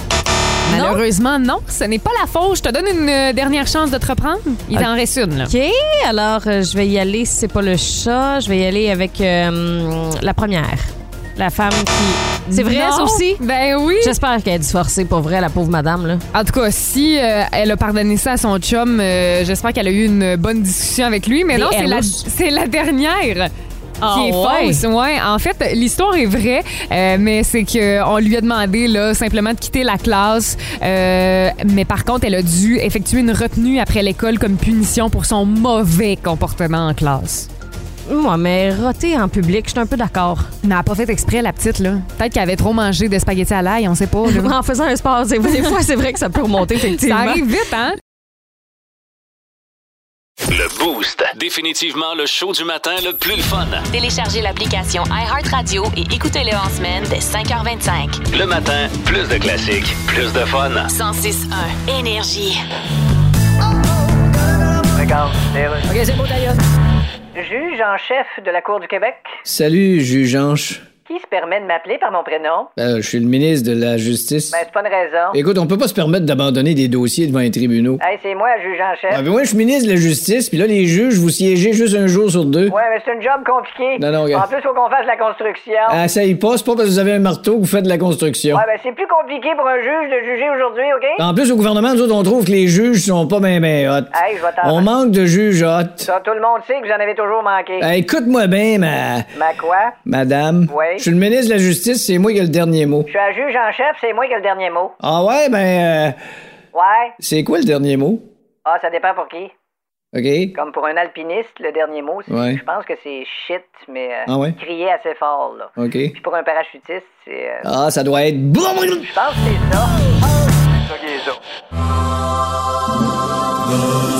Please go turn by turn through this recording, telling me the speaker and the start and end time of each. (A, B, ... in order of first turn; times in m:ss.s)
0:00.6-0:05.5 A
0:00.7-0:01.0 B
0:05.4-0:13.4 B
0:12.5-0:14.2 A
0:14.0-0:16.2 B
0:16.3-0:23.5 A
0:21.5-0:22.2 B
0:24.0-0:24.8 B
0:24.1-0:37.5 A
0:38.1-0:40.5 B
0:40.6-0:44.5 A
0:44.2-0:47.5 B
0:46.8-0:48.0 A
0:50.5-0:53.9 C
0:53.9-0:58.2 D
0:58.3-1:00.9 C
1:00.9-1:02.6 D
1:04.9-1:06.6 E
1:07.4-1:09.4 E
1:09.5-1:10.8 F
1:11.1-1:12.7 E
1:12.8-1:14.6 F
1:14.5-1:15.4 E
1:15.3-1:18.0 F
1:18.0-1:19.2 E
1:19.1-1:22.8 F
1:22.7-1:26.0 E
1:24.0-1:24.5 F
1:25.9-1:28.6 F
1:28.5-1:31.2 E
1:31.2-1:36.1 F
1:34.1-1:34.9 E
1:36.0-1:37.9 E
1:37.8-1:39.3 F
1:39.4-1:40.0 E
1:40.0-1:43.1 F
1:40.7-1:41.1 E
1:43.1-1:45.0 E
1:45.0-1:46.2 F
1:46.7-1:47.2 E
1:47.2-1:48.2 F
1:48.6-1:49.5 E
1:50.1-1:50.5 F
1:50.6-1:57.6 E
1:52.3-1:52.6 F
1:54.3-1:54.6 F
1:55.8-1:56.2 F
1:57.6-1:59.1 F
1:59.0-1:59.9 E
2:01.0-2:01.2 E